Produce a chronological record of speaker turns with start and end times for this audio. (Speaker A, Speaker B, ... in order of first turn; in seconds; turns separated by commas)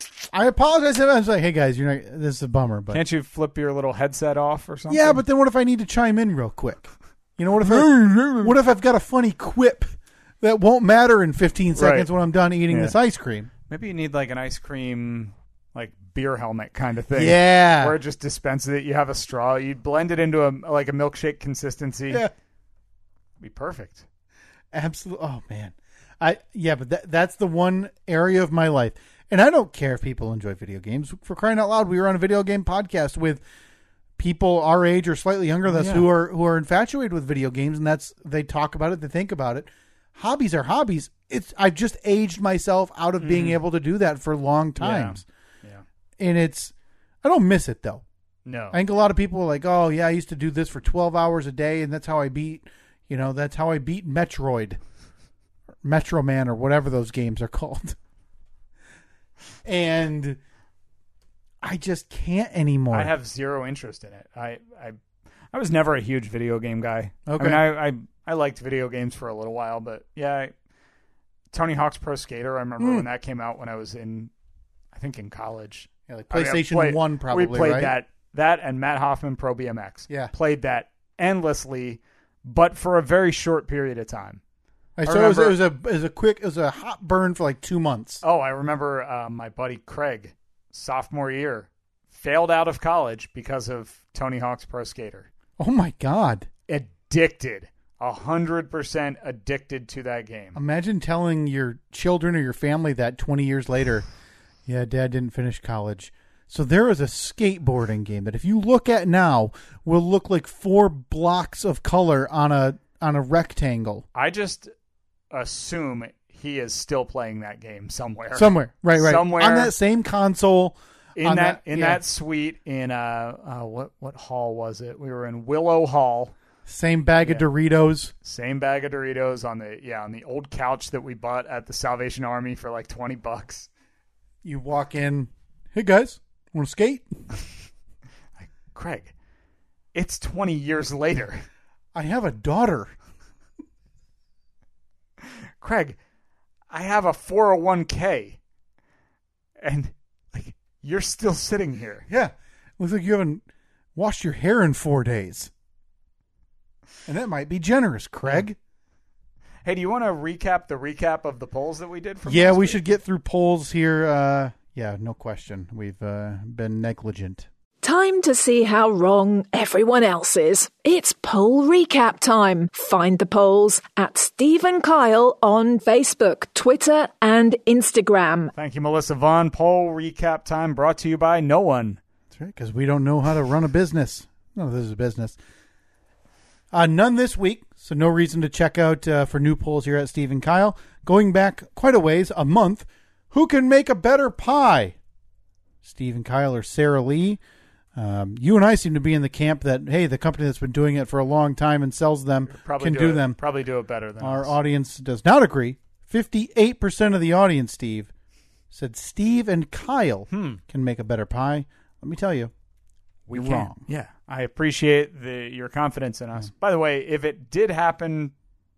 Speaker A: 0.2-3.0, Speaker B: 2.9-5.2, Speaker A: 4.9-13.5, Speaker B: 7.6-8.5, Speaker B: 11.7-12.1, Speaker B: 12.7-12.9, Speaker B: 13.7-22.3, Speaker A: 17.1-18.0, Speaker B: 23.4-24.1, Speaker A: 24.7-33.4, Speaker A: 34.2-45.2, Speaker B: 35.7-36.1, Speaker B: 43.2-43.6, Speaker B: 44.8-45.8, Speaker A: 46.2-48.0, Speaker B: 48.5-48.8, Speaker A: 48.7-54.8, Speaker A: 55.8-58.0, Speaker A: 59.6-60.4, Speaker A: 61.6-63.1, Speaker B: 62.9-65.0, Speaker B: 65.5-70.5, Speaker A: 67.3-67.6, Speaker B: 71.5-74.3, Speaker A: 72.8-73.1, Speaker B: 74.9-84.4, Speaker A: 76.1-78.0, Speaker A: 85.0-88.2, Speaker B: 85.0-85.6, Speaker B: 88.2-95.3, Speaker A: 95.6-96.5, Speaker B: 96.7-100.6, Speaker A: 100.5-104.1, Speaker A: 104.7-114.0, Speaker B: 114.1-114.7, Speaker B: 115.3-119.7, Speaker A: 118.3-122.0, Speaker B: 121.2-126.3, Speaker A: 126.7-128.1, Speaker B: 127.2-127.5, Speaker B: 128.2-133.7, Speaker A: 134.4-137.2, Speaker B: 138.4-139.1, Speaker B: 139.9-141.4, Speaker A: 141.9-142.9, Speaker B: 145.6-146.0, Speaker B: 146.7-148.4, Speaker B: 149.6-152.1, Speaker A: 152.1-153.4, Speaker A: 153.9-155.5, Speaker A: 157.1-158.6, Speaker B: 159.6-162.8, Speaker A: 162.3-167.5, Speaker C: 167.8-178.5, Speaker B: 178.5-182.0, Speaker A: 182.3-185.4, Speaker A: 186.7-194.9, Speaker A: 195.8-197.4, Speaker A: 197.9-203.4, Speaker B: 202.5-204.6, Speaker A: 204.2-208.1, Speaker A: 208.7-212.5, Speaker B: 210.3-210.6, Speaker B: 213.3-218.3, Speaker A: 213.3-213.8